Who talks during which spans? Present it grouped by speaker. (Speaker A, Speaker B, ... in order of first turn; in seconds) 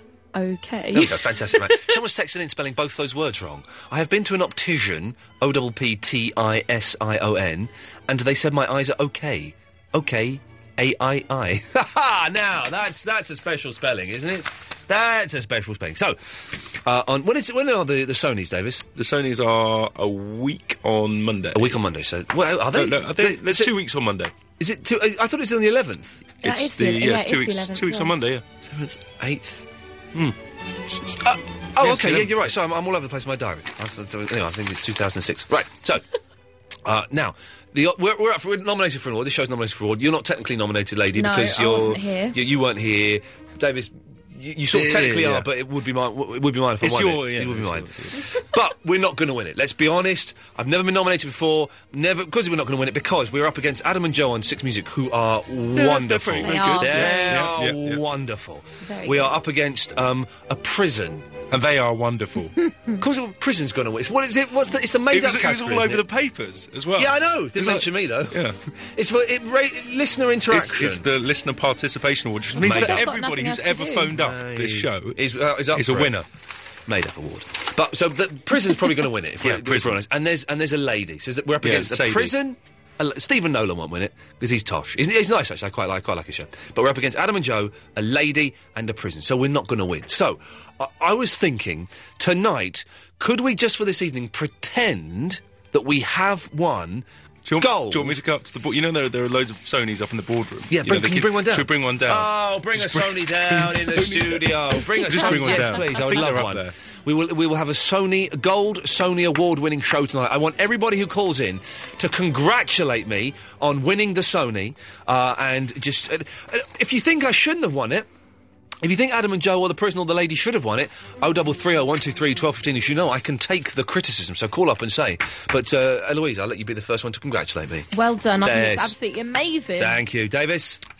Speaker A: 0.3-1.9, 26.4-28.1, 41.1-42.4, 56.4-57.5, 58.8-59.4, 72.5-74.1, 105.1-106.1, 127.9-130.0
Speaker B: 0.9-18.9, 21.5-23.7, 24.6-26.3, 28.6-29.6, 31.2-36.0, 36.8-61.3, 63.0-66.0, 67.0-71.1, 72.5-73.1, 74.1-76.2, 76.8-97.0, 97.6-98.2, 100.7-118.1, 118.8-127.9, 128.4-128.9, 129.8-130.8
Speaker C: 18.9-21.8, 22.7-24.3, 26.4-28.5, 30.9-31.2, 31.8-32.4, 44.7-45.5, 46.8-48.2, 55.7-58.0, 61.5-62.5, 65.1-68.5, 70.5-75.2, 75.7-76.2, 79.4-80.0, 81.6-82.3, 97.4-106.7